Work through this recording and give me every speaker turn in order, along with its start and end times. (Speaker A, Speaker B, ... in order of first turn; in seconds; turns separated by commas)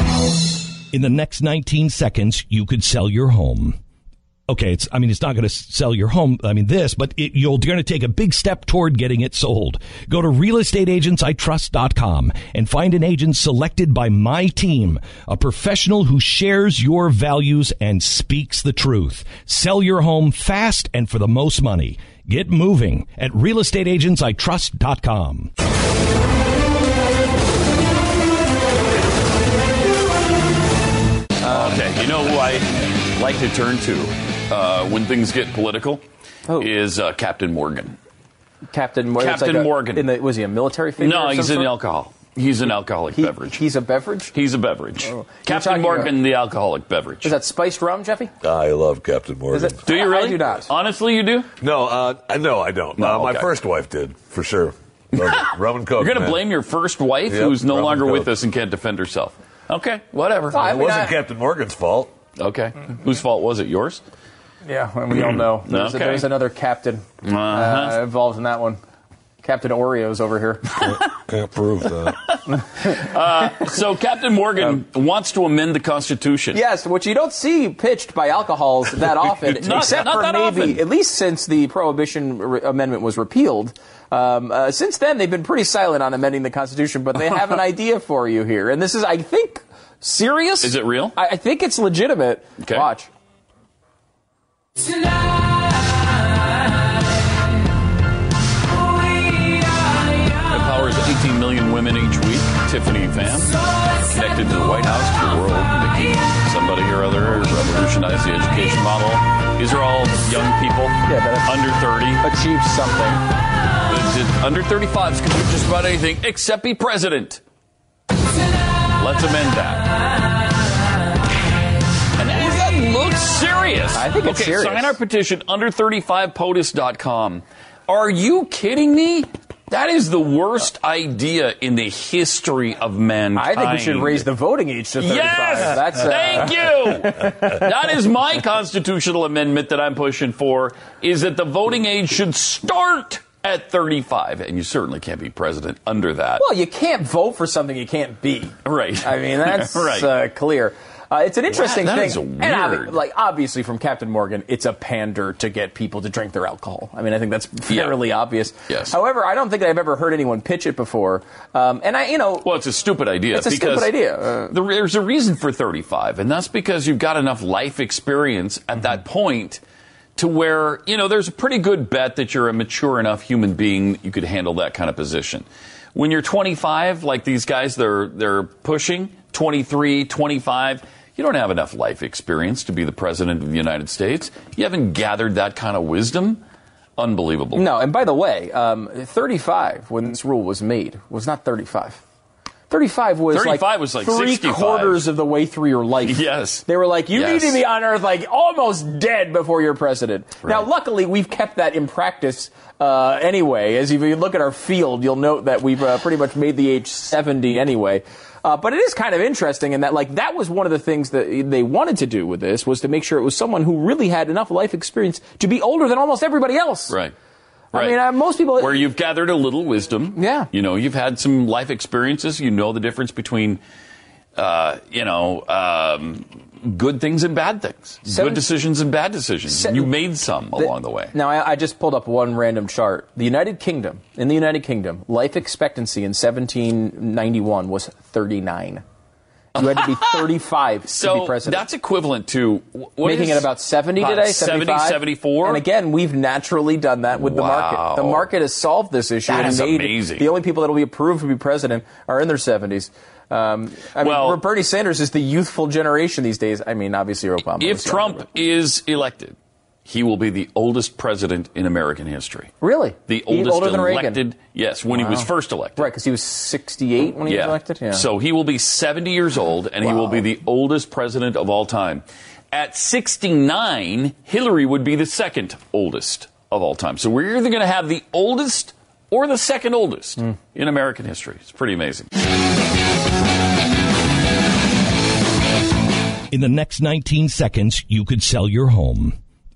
Speaker A: 0.9-3.8, Speaker A: 4.5-25.5, Speaker B: 31.4-31.8, Speaker C: 31.4-38.0, Speaker B: 38.7-41.7, Speaker C: 39.2-40.1, Speaker C: 41.0-43.6, Speaker B: 43.1-44.3, Speaker C: 44.3-47.3, Speaker B: 45.0-46.1, Speaker B: 47.2-48.3, Speaker D: 48.4-49.7, Speaker B: 49.5-50.7, Speaker C: 49.9-51.5, Speaker D: 51.6-56.5, Speaker C: 53.0-53.5, Speaker C: 55.3-60.7, Speaker D: 57.3-58.3, Speaker B: 60.5-61.2, Speaker D: 60.6-62.1, Speaker C: 62.4-64.0, Speaker B: 64.6-68.8, Speaker C: 65.1-66.3, Speaker C: 67.2-68.0, Speaker B: 69.4-70.9, Speaker D: 71.7-72.1, Speaker C: 72.8-76.6, Speaker B: 76.5-93.1, Speaker C: 79.4-80.8, Speaker C: 90.6-91.2, Speaker C: 92.6-92.8, Speaker C: 100.5-112.2, Speaker B: 111.0-111.6, Speaker B: 112.2-113.2, Speaker C: 113.8-117.4, Speaker C: 119.0-119.9, Speaker C: 122.2-134.2, Speaker B: 123.9-125.0, Speaker B: 133.3-137.6, Speaker C: 135.0-146.5, Speaker B: 146.4-162.5, Speaker C: 148.6-150.1, Speaker C: 151.5-153.0, Speaker C: 157.7-158.0, Speaker C: 158.7-159.0, Speaker C: 162.4-169.6, Speaker B: 163.3-164.5, Speaker C: 170.2-186.4, Speaker C: 187.0-187.7, Speaker B: 187.6-192.0, Speaker B: 192.7-216.9, Speaker C: 193.3-195.0, Speaker C: 196.0-197.6, Speaker C: 217.7-218.0, Speaker B: 217.7-218.8, Speaker C: 218.6-223.6, Speaker B: 220.2-220.5, Speaker C: 224.4-231.1, Speaker B: 228.1-228.5, Speaker B: 229.5-229.9, Speaker B: 230.6-238.8, Speaker B: 239.6-241.7, Speaker C: 239.6-240.2, Speaker C: 240.9-243.5, Speaker B: 243.0-258.2, Speaker C: 244.0-245.7, Speaker C: 247.2-248.3, Speaker C: 249.3-250.3, Speaker C: 254.0-254.4, Speaker C: 257.6-262.5, Speaker B: 262.6-264.2, Speaker C: 263.1-265.9, Speaker B: 264.9-268.0, Speaker C: 267.2-282.1, Speaker B: 269.8-270.2, Speaker A: 286.3-289.1